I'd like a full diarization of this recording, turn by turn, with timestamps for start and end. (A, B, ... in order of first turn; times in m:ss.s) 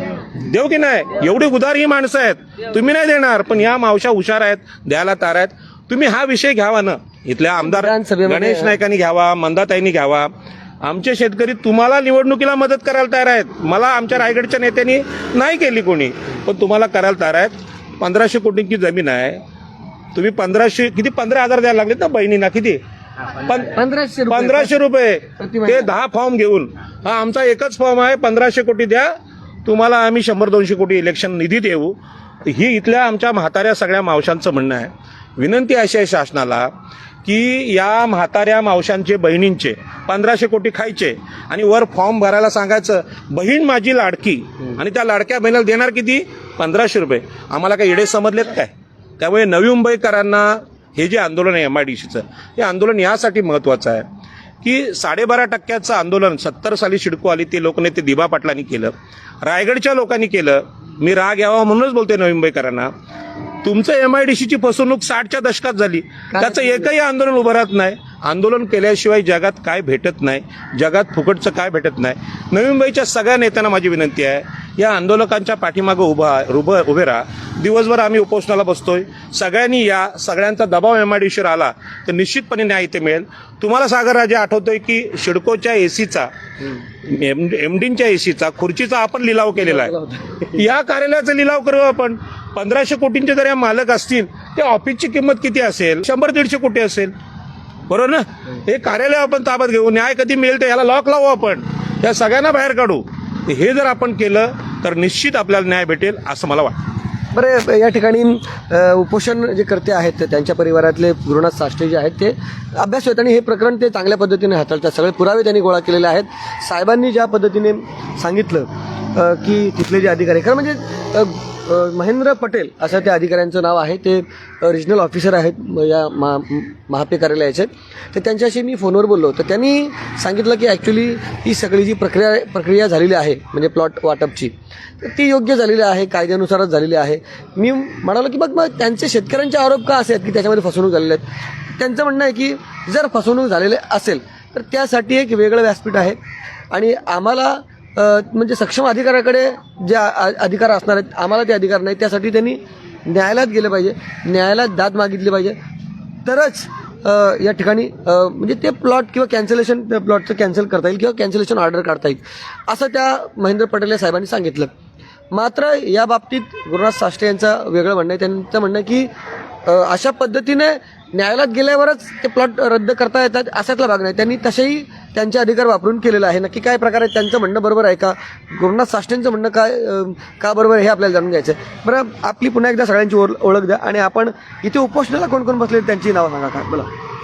0:00.4-0:10.3 A
0:07.6-0:08.8 B
0:10.8-0:19.4 A
0:20.1-0:22.8 A
0:23.4-0:23.7 A
0:23.6-0:24.7 B
0:24.3-0:29.1 A
0:25.4-0:25.9 B
0:29.6-0:36.7 A
0:37.2-0:54.1 A
0:54.6-1:02.9 A
1:03.6-1:26.3 A
1:06.3-1:06.9 B
1:27.0-1:29.9 A
1:29.6-1:30.6 B
1:30.5-1:37.1 A
1:37.9-1:46.8 A
1:47.3-2:26.2 B
2:26.7-2:35.6 B
2:36.2-2:44.7 B
2:45.3-2:49.1 B
2:49.6-3:06.9 B